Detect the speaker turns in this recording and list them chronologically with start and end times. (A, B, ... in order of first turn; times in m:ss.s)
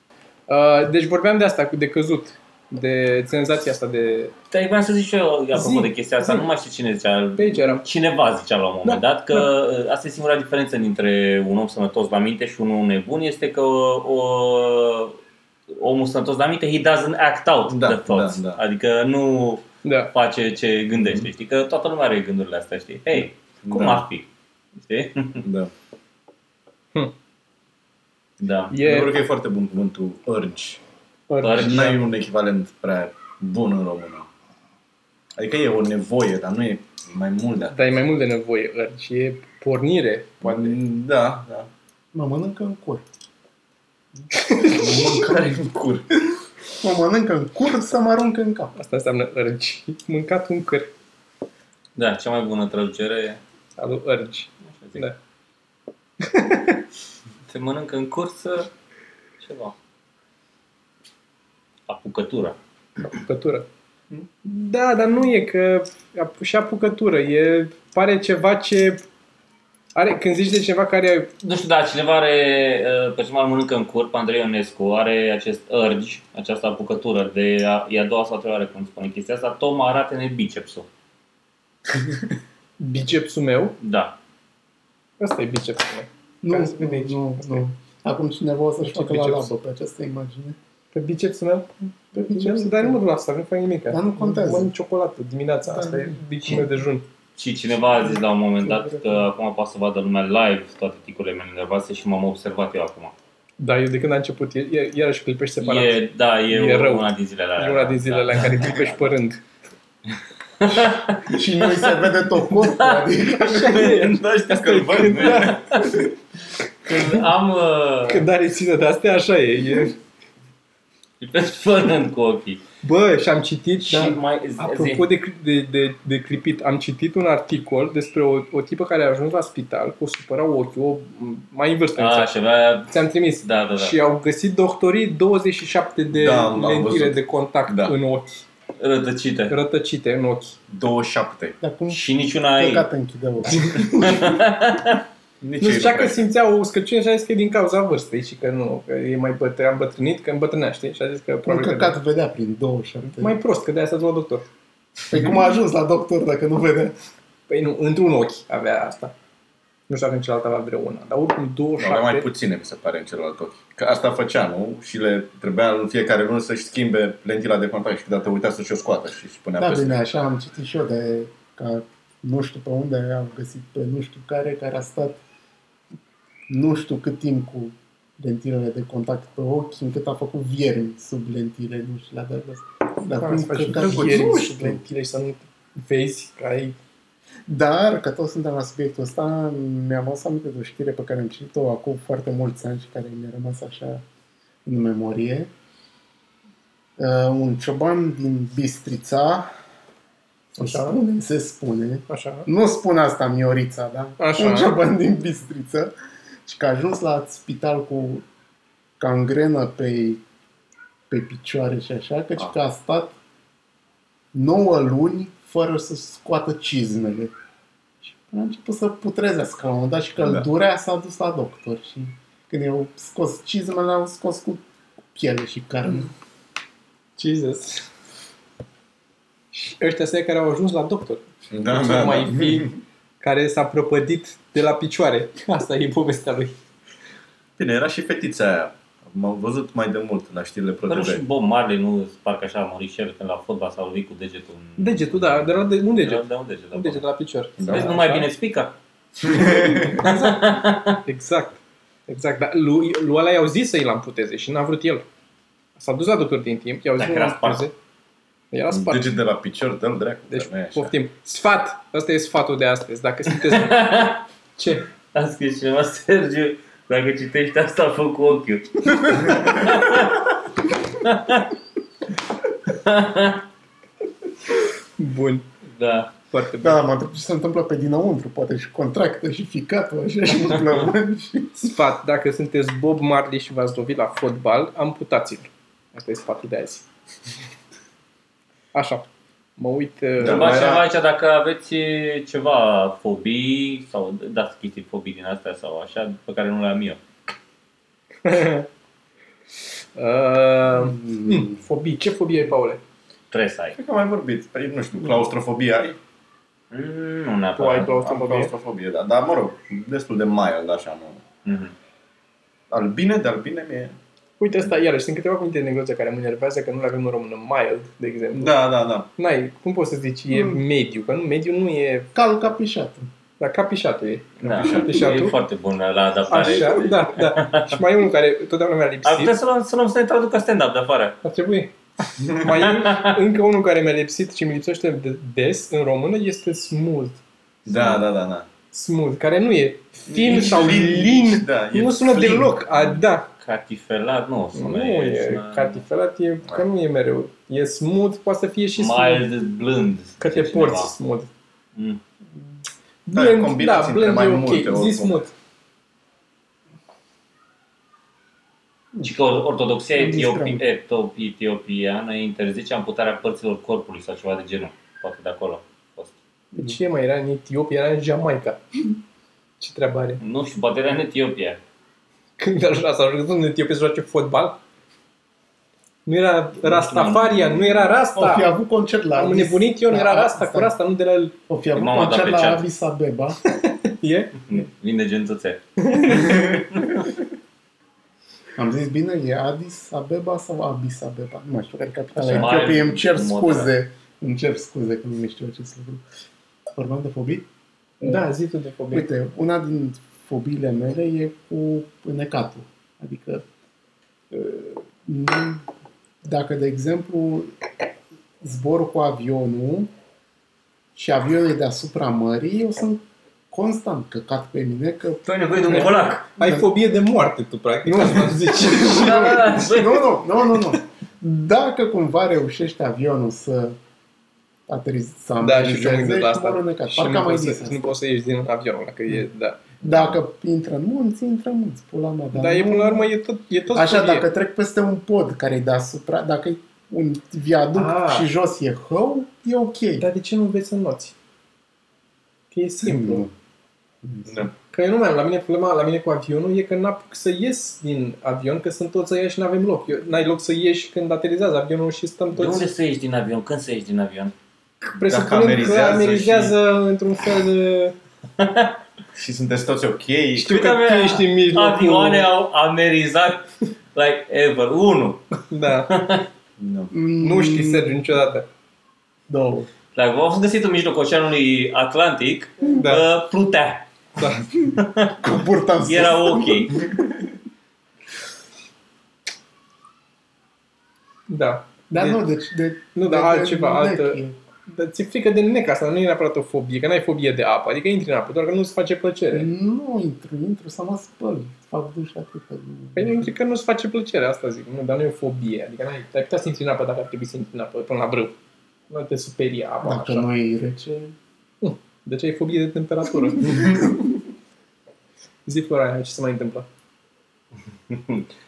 0:00.5-0:04.3 A
0:04.5-0:15.2 B
0:05.5-0:06.5 A
0:07.4-0:07.8 A
0:08.8-0:09.5 A
0:15.7-0:24.2 B
0:17.7-0:18.6 C
0:19.8-0:20.1 A
0:23.6-0:24.0 C
0:24.8-0:25.4 B
0:25.4-0:25.7 C
0:28.4-0:28.7 B
0:28.7-0:29.1 A
0:28.7-0:30.8 C
0:31.3-0:32.0 A
0:31.4-0:32.0 B
0:31.5-0:34.3 C
0:35.4-0:37.8 C
0:37.7-0:40.8 A
0:40.4-0:41.7 C
0:42.1-0:43.0 D
0:44.3-0:45.1 A
0:44.6-0:46.3 C
0:46.8-0:48.7 D
0:48.7-0:50.9 A
0:52.0-0:53.4 B
0:53.8-0:55.2 A
0:56.2-0:56.8 A
0:57.5-0:58.7 B
0:59.4-0:59.7 B
1:01.9-1:02.6 B
1:03.0-1:03.6 A
1:04.4-1:09.0 A
1:09.9-1:11.3 A
1:11.4-1:20.9 B
1:22.8-1:23.8 A
1:23.8-1:24.2 B
1:25.2-1:27.6 A
1:26.4-1:30.6 D
1:28.8-1:29.5 A
1:30.9-1:37.0 A
1:32.1-1:33.0 D
1:33.9-1:34.7 D
1:35.6-1:36.7 D
1:37.4-1:43.1 B
1:43.6-1:49.4 A
1:45.6-1:49.1 B
1:50.6-1:51.9 B
1:51.2-1:54.0 D
1:52.6-1:56.0 B
1:53.2-1:56.0 A
1:54.5-1:55.6 C
1:56.8-1:58.2 B
1:58.1-2:00.0 A
2:01.2-2:02.6 B
2:02.8-2:12.3 A
2:03.9-2:05.1 B
2:12.0-2:14.0 B
2:12.9-2:18.4 A
2:16.1-2:17.9 C
2:18.8-2:19.5 B
2:19.5-2:20.6 A
2:20.7-2:21.6 C
2:21.6-2:24.4 D
2:21.9-2:22.9 B
2:24.0-2:25.0 B
2:25.4-2:26.2 C
2:25.6-2:32.0 A
2:31.4-2:33.4 D
2:33.2-2:34.5 A
2:35.1-2:36.9 D
2:37.5-2:39.1 A
2:39.9-2:42.3 A
2:41.8-2:50.0 C
2:49.6-2:55.2 D
2:56.5-3:04.8 D
3:03.2-3:06.8 A
3:03.8-3:04.4 C
3:07.5-3:14.0 D
3:14.6-3:15.5 D
3:17.0-3:19.5 D
3:20.5-3:25.9 D
3:20.6-3:21.0 A
3:22.1-3:22.5 A
3:24.2-3:24.8 A
3:26.4-3:28.2 D
3:29.0-3:30.2 D
3:31.1-3:33.1 D
3:34.3-3:37.3 D
3:38.0-3:46.1 D
3:40.2-3:40.4 C
3:47.2-3:47.9 A
3:49.5-3:56.6 A
3:51.5-3:52.8 C
3:57.6-4:01.2 C
4:00.9-4:07.0 B
4:04.8-4:08.3 A
4:07.6-4:07.9 C
4:07.6-4:08.7 B
4:09.2-4:10.2 C
4:09.6-4:10.0 A
4:09.9-4:11.0 B
4:11.0-4:15.0 A
4:15.8-4:17.7 A
4:17.0-4:17.6 B
4:18.5-4:19.1 A
4:18.7-4:20.9 C
4:20.3-4:23.9 A
4:23.4-4:24.2 B
4:24.6-4:24.9 A
4:25.1-4:30.3 B
4:30.9-4:31.5 B
4:32.7-4:33.4 B
4:35.0-4:35.4 A
4:35.7-4:36.1 B
4:36.3-4:36.8 A
4:36.6-4:41.6 D
4:41.6-4:46.8 A
4:48.7-4:49.0 A
4:49.6-4:50.8 A
4:50.2-4:50.8 C
4:50.2-4:57.0 B
4:58.2-4:58.7 A
4:59.9-5:02.8 A
5:00.7-5:01.6 D
5:03.3-5:03.8 B
5:03.8-5:06.0 C
5:06.7-5:07.9 B
5:07.6-5:08.5 A
5:07.8-5:11.2 C
5:11.4-5:11.7 B
5:12.7-5:14.0 C
5:14.4-5:18.6 A
5:18.4-5:19.1 C
5:19.2-5:22.1 A
5:20.3-5:20.6 D
5:22.1-5:23.1 D
5:23.4-5:25.3 A
5:24.4-5:27.8 B
5:24.4-5:25.2 C
5:26.3-5:29.3 A
5:29.0-5:31.2 B
5:31.2-5:31.7 A
5:32.2-5:32.4 C
5:32.3-5:37.2 A
5:32.5-5:33.2 B
5:37.6-5:38.5 C
5:38.7-5:43.3 A
5:40.1-5:42.5 C
5:43.4-5:45.8 B
5:44.5-5:49.2 A
5:48.8-5:50.9 B
5:50.2-5:51.3 A
5:51.7-5:52.0 B
5:53.0-5:55.3 A
5:53.1-5:55.2 C
5:59.0-6:06.1 B
6:00.0-6:00.6 D
6:06.5-6:08.6 A
6:09.6-6:10.2 A
6:10.2-6:11.6 B
6:12.4-6:14.6 A
6:16.0-6:18.5 A
6:16.6-6:17.9 B
6:18.1-6:20.7 D
6:19.1-6:21.3 A
6:21.5-6:23.4 D
6:21.7-6:22.6 B
6:23.4-6:24.4 A
6:24.5-6:26.5 B
6:25.8-6:26.6 A
6:28.6-6:36.0 D
6:32.2-6:33.7 B
6:36.7-6:37.4 D
6:38.0-6:39.1 A
6:38.9-6:43.4 D
6:44.3-6:45.6 D
6:46.2-6:47.5 D
6:48.4-6:49.9 D
6:50.9-6:56.7 D
6:55.2-6:56.2 B
6:55.7-6:59.5 A
6:57.8-7:03.8 D
6:58.8-7:00.1 B
7:04.7-7:07.9 D
7:05.4-7:09.8 A
7:09.8-7:13.1 D
7:12.3-7:14.3 A
7:13.7-7:20.0 D
7:17.7-7:18.3 A
7:20.0-7:21.1 A
7:22.5-7:23.3 A
7:22.8-7:23.3 D
7:24.0-7:24.4 D
7:24.3-7:24.5 C
7:24.6-7:32.6 A
7:32.3-7:34.3 B
7:34.9-7:37.9 A
7:35.0-7:36.5 C
7:38.4-7:38.8 B
7:39.1-7:40.6 C
7:40.3-7:42.3 A
7:40.4-7:45.4 B
7:45.5-7:45.9 A
7:45.9-7:46.3 B
7:46.6-7:46.9 C
7:46.9-7:48.1 D
7:47.2-7:48.5 A
7:49.3-7:49.7 D
7:49.9-7:53.9 B
7:52.7-7:53.0 A
7:54.2-7:54.4 A
7:54.7-7:55.1 B
7:55.2-7:57.1 D
7:55.8-7:56.8 B
8:01.3-8:02.2 A
8:01.9-8:04.4 D
8:02.9-8:09.5 A
8:09.3-8:13.3 D
8:12.9-8:18.4 A
8:18.9-8:20.3 A
8:19.8-8:21.1 D
8:21.6-8:23.9 A
8:23.5-8:24.0 D
8:25.4-8:26.7 A
8:27.9-8:28.3 B